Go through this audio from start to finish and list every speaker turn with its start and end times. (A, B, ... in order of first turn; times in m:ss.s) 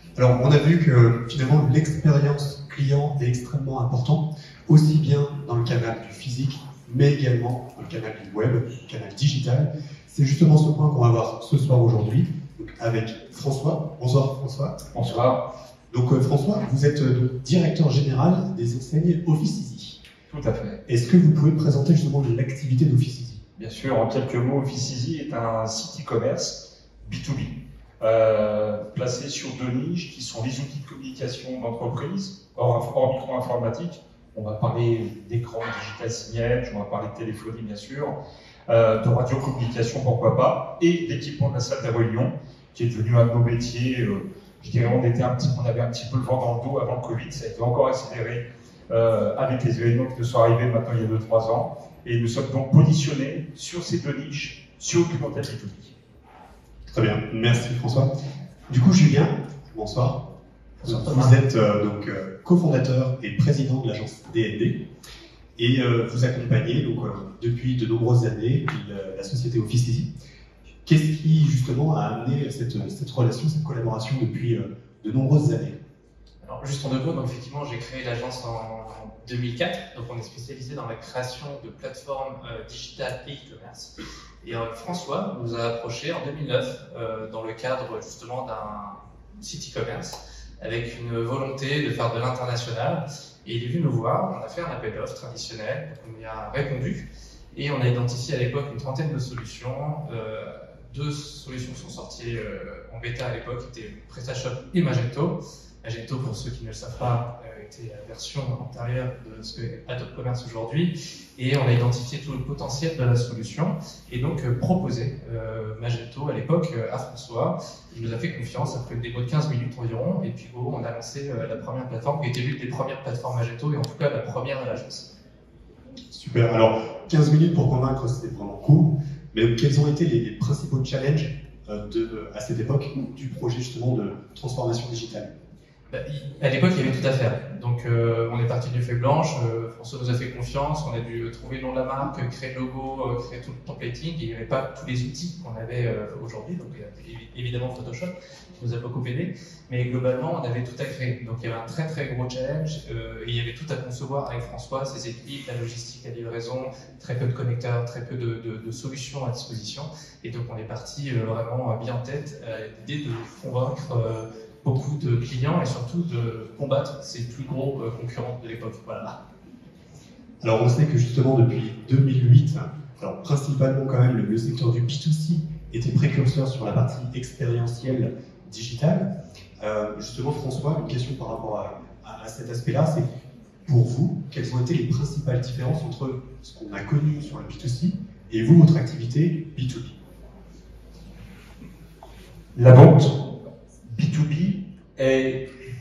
0:00.2-0:14.8 A
0:14.9-0:15.5 B
0:15.9-0:20.0 A
0:20.3-0:20.8 B
0:20.9-0:23.4 A
0:23.6-0:38.2 B
0:38.7-0:55.9 B
0:56.9-0:58.1 A
0:58.7-1:00.2 A
1:00.8-1:04.8 A
1:00.9-1:01.3 B
1:05.6-1:10.1 A
1:10.8-1:15.8 A
1:16.4-2:05.1 C
2:06.1-2:15.3 A
2:15.9-2:49.2 C
2:50.4-3:03.1 A
3:03.6-3:10.0 A
3:12.5-3:13.3 B
3:13.8-3:15.5 B